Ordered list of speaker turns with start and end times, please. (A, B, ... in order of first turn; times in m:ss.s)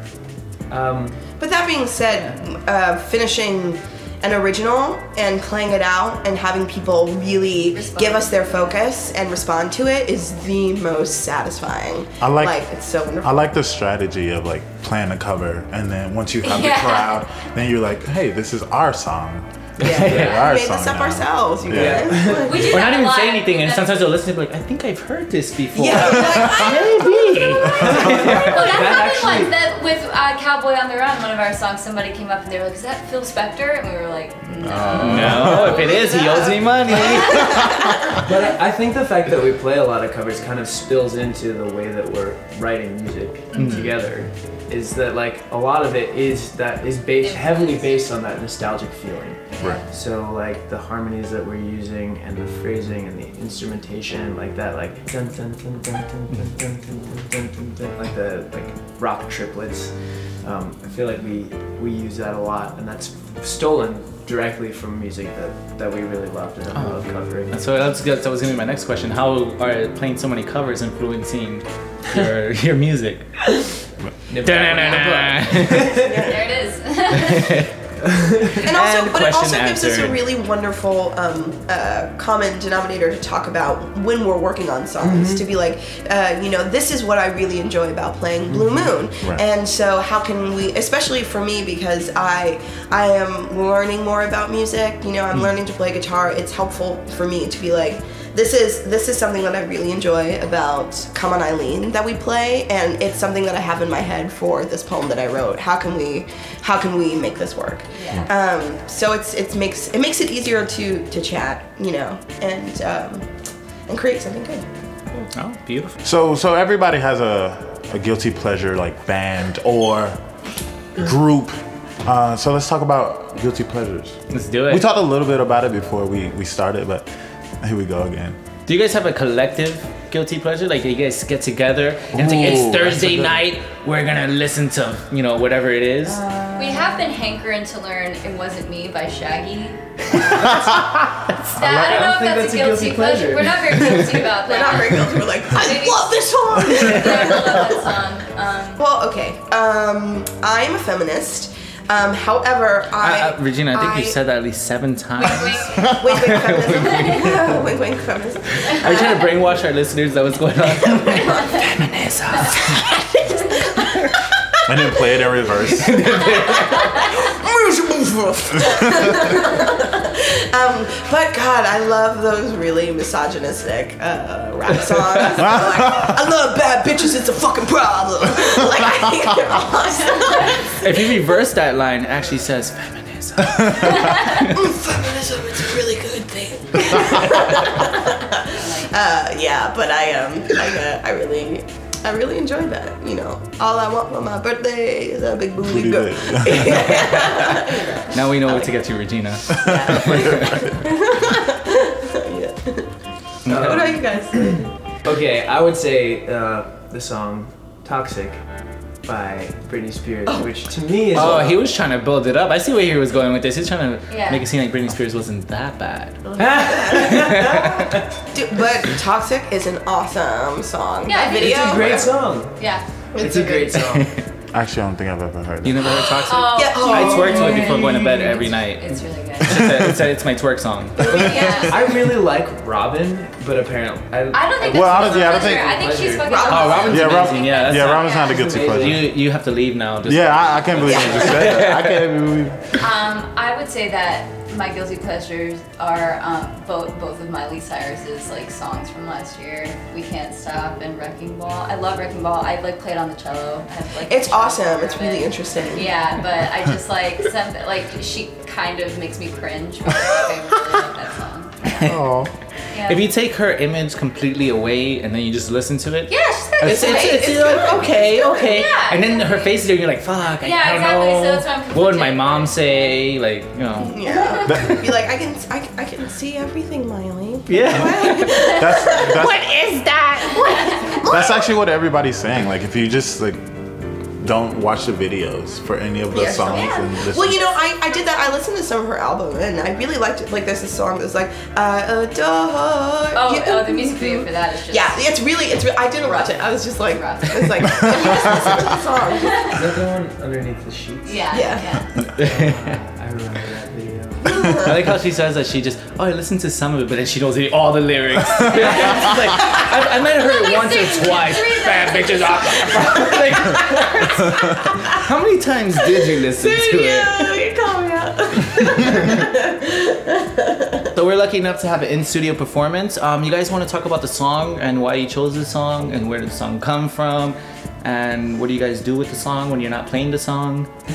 0:00.7-0:01.2 A
0:01.4-0:13.4 B
0:07.7-0:08.8 C
0:12.2-0:12.6 D
0:13.2-0:22.3 D
0:16.4-0:17.2 C
0:19.8-0:22.7 B
0:19.8-0:20.4 E
0:19.9-0:20.3 A
0:21.7-0:22.6 A
0:22.3-0:24.2 C
0:22.5-0:28.8 E
0:25.7-0:27.7 B
0:26.2-0:37.9 C
0:27.7-0:29.6 A
0:34.6-0:35.9 D
0:35.0-0:38.0 E
0:35.9-0:37.8 B
0:38.1-1:07.5 A
0:43.5-0:43.9 C
0:43.5-0:43.9 E
0:47.2-0:48.0 C
1:06.7-1:13.5 E
1:14.3-1:16.3 A
1:14.4-1:16.0 E
1:15.9-1:16.4 B
1:16.2-1:17.6 C
1:17.2-1:17.7 E
1:18.0-1:18.7 A
1:18.6-1:20.2 E
1:18.6-1:53.3 B
1:25.0-1:25.5 A
1:47.9-1:48.3 C
1:53.9-1:55.3 B
1:55.3-1:56.0 E
1:56.0-2:00.2 D
2:01.0-2:07.1 D
2:04.3-2:04.9 E
2:07.6-2:08.4 D
2:08.7-2:16.2 E
2:12.1-2:13.4 D
2:16.1-2:17.0 A
2:16.6-2:28.8 C
2:21.6-2:24.1 A
2:24.1-2:27.9 B
2:28.8-2:34.2 B
2:33.0-2:37.6 E
2:35.2-2:36.0 C
2:35.8-2:39.4 B
2:36.8-2:37.3 C
2:38.7-2:42.8 E
2:40.8-2:41.7 B
2:42.4-2:44.2 B
2:44.7-2:46.5 D
2:44.8-2:45.2 B
2:45.8-2:47.0 E
2:45.9-3:00.9 B
3:00.8-3:04.6 E
3:03.8-3:18.7 B
3:08.5-3:08.9 C
3:15.6-3:17.1 D
3:16.7-3:20.8 E
3:19.5-3:22.9 B
3:19.7-3:20.6 D
3:23.5-3:24.0 E
3:23.5-3:28.4 A
3:23.5-3:24.7 B
3:29.0-3:31.6 A
3:31.1-3:37.9 E
3:34.1-3:34.5 C
3:36.3-3:42.2 B
3:36.4-3:38.0 A
3:41.1-3:42.8 C
3:41.3-3:42.6 A
3:43.2-3:43.8 B
3:43.2-3:44.2 A
3:43.8-3:44.2 E
3:44.5-3:46.2 D
3:45.6-3:51.2 E
3:46.2-3:49.9 C
3:46.5-3:48.0 B
3:51.0-3:52.0 C
3:51.0-3:51.7 B
3:51.1-3:56.8 A
3:54.3-3:58.7 C
3:54.6-3:55.9 D
3:56.2-3:57.0 B
3:56.4-4:02.1 E
3:56.9-3:59.1 D
3:58.3-3:59.0 A
4:00.1-4:02.8 D
4:00.8-4:01.5 B
4:02.8-4:22.0 C
4:14.1-4:16.0 B
4:21.7-4:22.1 E
4:21.8-4:22.3 D
4:22.7-4:23.1 C
4:22.8-4:34.6 E
4:26.1-4:27.8 C
4:26.6-4:28.7 B
4:28.4-4:29.6 C
4:30.4-4:33.0 C
4:33.8-4:39.3 B
4:34.1-4:34.8 C
4:37.5-4:40.8 E
4:38.1-4:39.5 D
4:40.3-4:41.5 B
4:40.4-4:41.0 C
4:41.0-4:43.4 D
4:44.2-4:47.5 D
4:46.1-4:59.6 B
4:53.1-4:55.0 C
4:56.0-4:59.6 C
4:59.5-5:01.3 A
5:01.0-5:02.0 C
5:01.3-5:01.8 B
5:02.0-5:04.7 A
5:02.2-5:02.8 E
5:04.3-5:04.8 B
5:04.5-5:17.4 E
5:08.5-5:09.5 C
5:10.1-5:13.1 C
5:16.2-5:20.9 B
5:20.9-5:30.7 E